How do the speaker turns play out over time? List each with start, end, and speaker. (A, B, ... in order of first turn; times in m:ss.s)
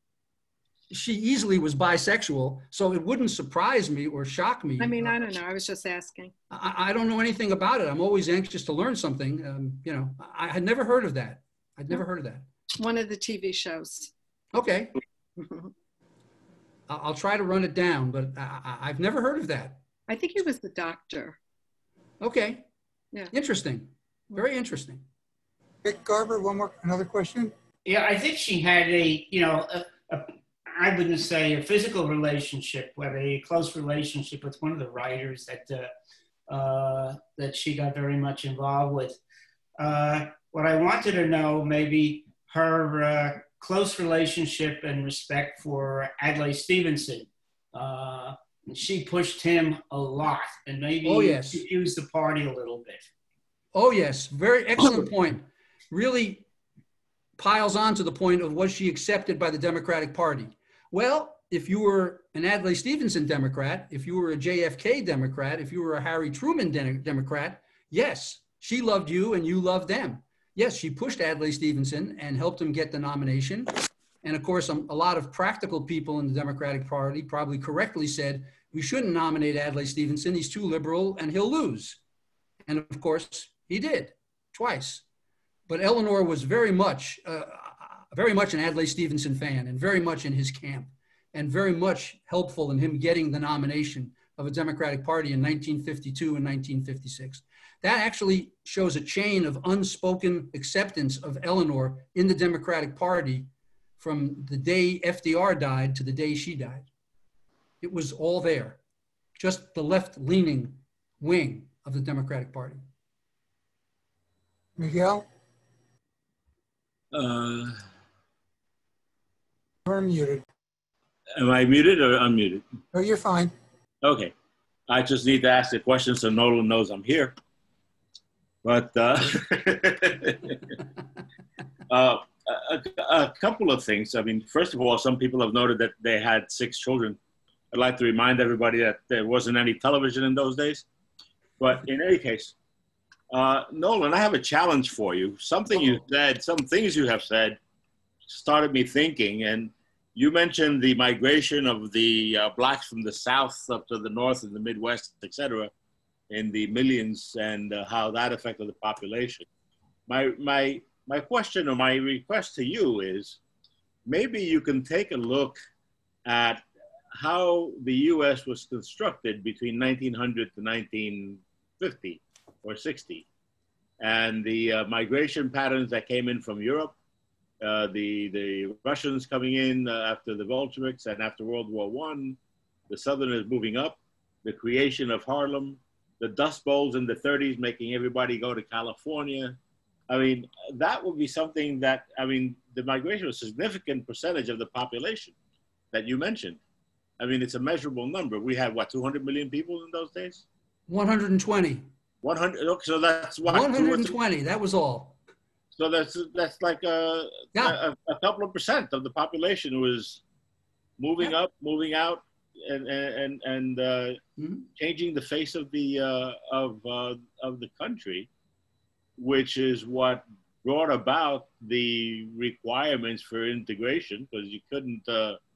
0:00.9-0:05.3 A
0:04.8-0:06.3 B
0:06.5-0:12.5 A
0:12.8-0:14.1 B
0:14.5-0:14.9 A
0:15.4-0:15.7 B
0:16.9-0:19.8 A
0:20.1-0:21.4 B
0:22.2-0:22.6 A
0:23.3-0:25.0 A
0:25.8-0:27.5 C
0:27.8-0:35.9 D
0:36.5-0:39.2 D
0:39.8-0:53.1 D
0:51.0-0:51.6 A
0:53.7-0:56.4 A
0:57.4-1:13.7 A
1:14.2-1:22.0 A
1:22.7-1:25.0 A
1:25.7-1:46.9 A
1:47.8-1:48.8 A
1:49.4-1:52.8 A
1:54.8-1:55.2 C
1:57.1-1:57.8 E
1:59.8-2:00.4 C
2:01.4-2:02.6 E
2:02.9-2:03.5 C
2:04.0-2:04.3 E
2:04.9-2:07.4 E
2:08.6-2:10.7 E
2:11.9-2:17.2 E
2:17.7-2:20.8 E
2:21.6-2:22.5 E
2:23.3-2:27.6 E
2:28.2-2:35.7 E
2:36.3-2:39.4 E
2:40.1-2:43.4 E
2:44.0-2:45.6 E
2:46.2-2:46.6 E
2:47.2-2:53.2 E
2:54.0-2:56.9 E
2:57.6-3:02.4 E
3:02.9-3:09.6 E
3:10.1-3:15.3 E
3:15.9-3:16.6 E
3:17.2-3:20.4 E
3:20.9-3:21.8 A
3:22.2-3:24.1 E
3:23.4-3:25.2 A
3:25.7-3:30.2 E
3:31.0-3:34.2 E
3:34.4-3:34.7 A
3:34.8-3:38.3 E
3:39.2-3:45.4 E